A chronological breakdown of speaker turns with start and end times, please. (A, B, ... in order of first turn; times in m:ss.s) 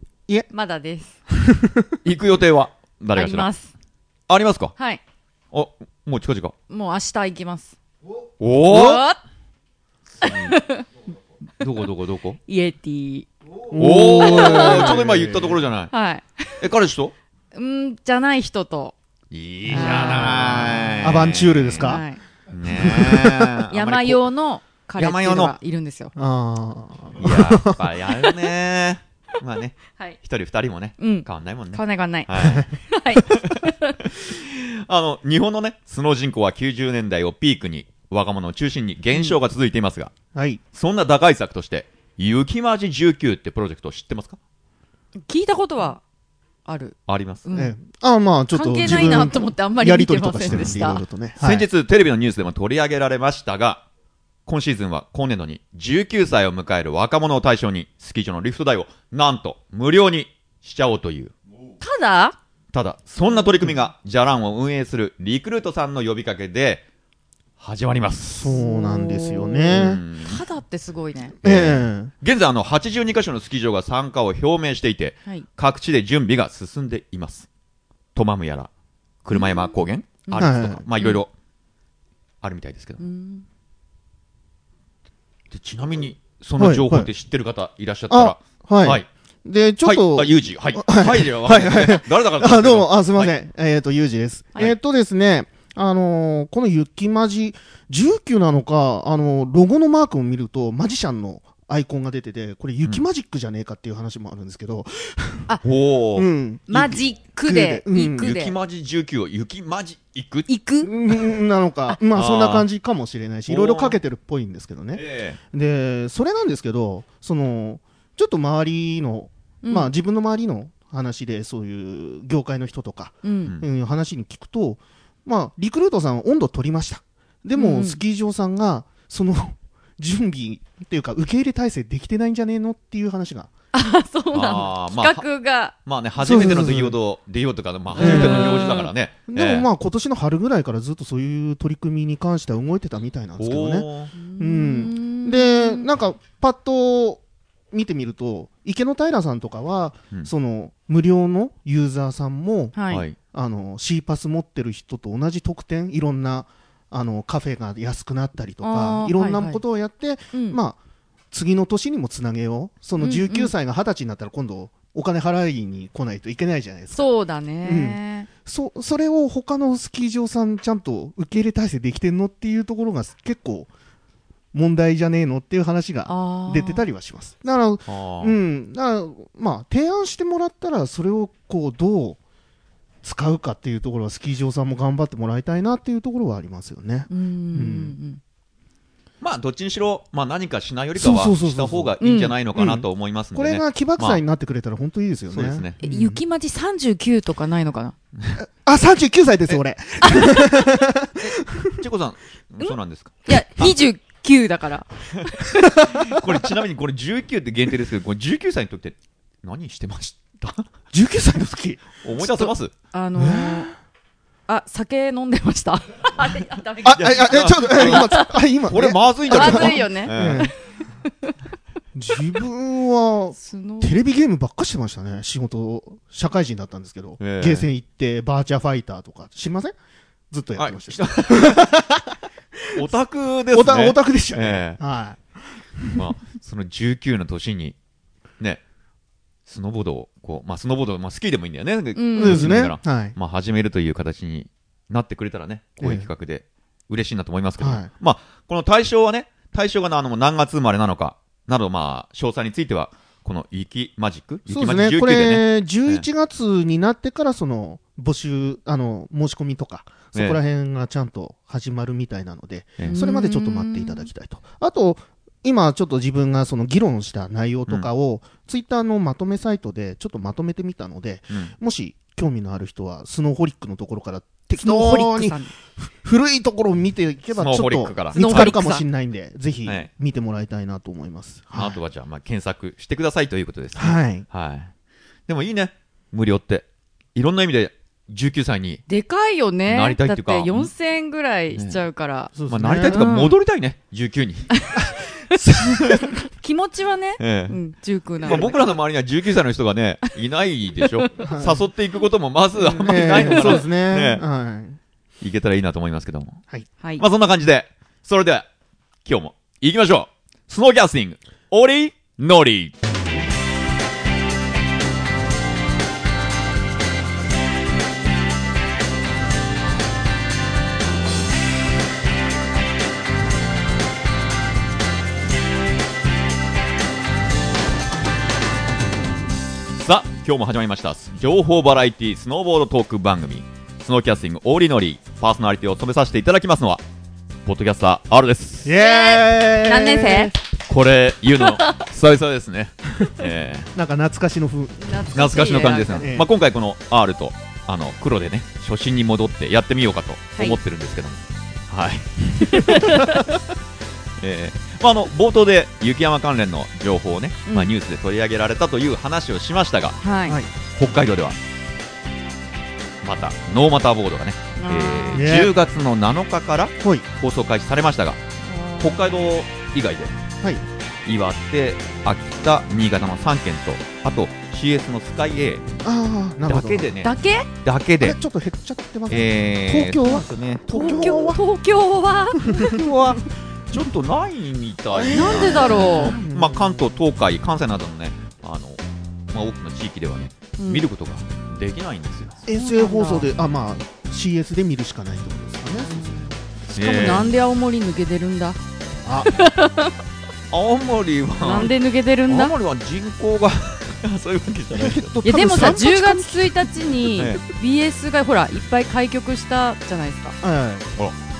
0:00.5-0:01.2 A
0:01.3-0:01.9 B
0:02.0-0:03.5 C
0:03.2-0:03.7 A
0:04.3-0:04.7 C
0:05.5-0:06.5 C
0:06.7-0:07.8 A
0:08.4-0:09.0 C
0:08.6-0:09.2 A
0:10.2-0:10.6 C
0:10.2-0:10.8 A
0:11.6-0:12.4 C
0:12.5-0:13.3 A
0:13.7-0:15.5 B
0:13.8-0:15.9 C
0:13.9-0:15.0 A
0:15.9-0:16.5 A
0:16.6-0:17.1 C
0:17.5-0:19.0 A
0:19.3-0:21.9 C
0:19.7-0:22.0 B
0:19.7-0:21.0 A
0:21.8-0:22.2 A
0:22.5-0:24.2 C
0:22.7-0:23.5 B
0:23.7-0:26.1 A
0:25.0-0:25.5 C
0:26.1-0:27.8 B
0:27.2-0:32.7 C
0:31.0-0:34.0 A
0:33.2-0:33.5 C
0:34.1-0:40.1 C
0:40.3-0:40.6 B
0:40.7-0:44.4 C
0:45.2-0:46.0 A
0:46.7-0:47.7 A
0:47.1-0:47.4 C
0:47.5-0:51.7 B
0:48.5-0:51.0 A
0:50.5-0:50.8 C
0:51.4-0:53.8 C
0:54.4-1:01.3 C
1:01.8-1:02.4 A
1:02.7-1:06.8 C
1:03.4-1:03.7 A
1:07.6-1:08.6 C
1:08.3-1:10.0 B
1:08.4-1:11.4 A
1:09.7-1:10.4 C
1:11.4-1:12.1 B
1:11.4-1:17.5 C
1:18.1-1:18.7 C
1:19.2-1:21.3 C
1:19.3-1:21.2 A
1:20.3-1:20.8 B
1:22.4-1:23.0 C
1:23.0-1:23.4 A
1:25.5-1:29.1 C
1:26.6-1:27.1 B
1:28.1-1:45.5 B
1:29.8-1:33.3 C
1:45.6-1:47.0 C
1:46.2-1:46.9 B
1:46.7-1:48.6 A
1:47.4-1:48.4 B
1:48.2-1:50.5 C
1:50.5-1:50.9 A
1:50.8-2:13.5 B
1:52.1-1:52.7 C
1:53.5-1:54.0 C
1:54.9-1:55.4 C
1:59.6-1:59.9 A
2:03.2-2:03.5 A
2:07.6-2:08.0 A
2:13.7-2:15.8 A
2:14.3-2:19.7 C
2:16.2-2:17.0 B
2:17.9-2:40.8 B
2:18.0-2:18.9 A
2:23.4-2:24.1 C
2:24.2-2:25.9 A
2:32.8-2:33.0 A
2:32.9-2:33.2 C
2:38.6-2:39.6 A
2:40.3-2:40.6 A
2:41.3-2:53.7 B
2:43.0-2:43.5 A
2:46.9-2:48.3 A
2:54.5-3:02.2 B
2:56.1-2:56.8 A
2:57.9-2:58.3 C
3:03.0-3:08.0 B
3:07.1-3:08.2 A
3:09.2-3:14.2 C
3:11.0-3:12.0 B
3:12.0-3:12.4 A
3:12.5-3:16.2 B
3:15.3-3:15.8 C
3:15.8-3:18.0 A
3:18.4-3:21.8 B
3:20.0-3:20.4 A
3:21.8-3:23.3 C
3:23.3-3:25.9 A
3:26.1-3:30.7 C
3:30.9-3:32.5 B
3:32.0-3:32.7 C
3:32.9-3:33.7 A
3:33.2-3:33.7 B
3:34.5-3:38.2 A
3:36.8-3:40.5 C
3:36.8-3:40.5 B
3:39.3-3:40.5 A
3:42.0-3:49.8 B
3:43.4-3:44.0 A
3:47.2-3:47.7 C
3:50.3-3:52.8 B
3:50.6-3:51.7 C
3:52.8-3:54.8 C
3:53.5-3:56.0 B
3:56.0-3:57.8 C
3:59.5-4:16.1 C
4:02.0-4:02.6 A
4:02.2-4:03.2 B
4:05.8-4:06.1 B
4:07.6-4:07.9 B
4:14.5-4:41.8 B
4:20.1-4:20.4 C
4:22.8-4:24.1 A
4:34.6-4:35.5 A
4:37.4-4:38.6 C
4:38.2-4:38.8 A
4:41.5-4:44.7 C
4:43.8-4:44.2 B
4:45.3-4:48.8 C
4:48.9-4:52.3 A
4:49.7-4:50.7 C
4:51.5-4:51.8 C
4:52.3-4:53.1 B
4:52.4-4:54.5 C
4:52.9-4:53.3 A
4:54.6-4:58.6 A
4:55.4-4:56.0 C
4:57.2-4:57.6 C
4:58.2-5:04.2 C
5:01.2-5:01.6 B
5:02.6-5:03.6 A
5:02.8-5:04.8 B
5:05.2-5:06.4 C
5:07.0-5:08.5 C
5:09.0-5:12.7 C
5:29.8-5:36.8 C
5:37.4-5:38.7 C
5:38.6-5:40.3 B
5:38.8-5:40.4 A
5:40.7-5:43.7 C
5:43.7-5:46.3 B
5:44.8-5:46.1 A
5:45.1-5:53.4 C
5:52.5-5:53.2 A
5:54.2-6:00.0 C
5:57.5-5:57.7 A
6:00.0-6:00.4 A
6:00.2-6:00.5 B
6:00.7-6:01.4 C
6:03.0-6:08.2 C
6:04.6-6:05.2 A
6:05.1-6:05.5 B
6:06.8-6:07.1 B
6:08.4-6:09.0 A
6:08.8-6:10.2 C
6:11.0-6:15.6 C
6:15.8-6:16.9 B
6:16.4-6:18.2 C
6:17.0-6:17.5 A
6:18.0-6:21.4 B
6:19.1-6:20.6 C
6:20.7-6:22.9 A
6:22.5-6:22.8 B
6:22.7-6:32.4 C
6:24.9-6:26.9 B
6:25.1-6:26.2 A
6:30.6-6:30.9 A
6:32.4-6:36.1 B
6:32.5-6:33.3 A
6:35.8-6:38.6 A
6:36.8-6:37.3 C
6:36.8-6:37.3 B
6:39.0-6:39.3 B
6:39.2-6:39.9 A
6:40.5-6:41.8 C
6:41.4-6:42.6 A
6:42.3-6:45.7 C
6:44.7-6:47.1 B
6:45.2-6:50.4 A
6:47.2-6:47.4 C
6:50.4-6:50.9 B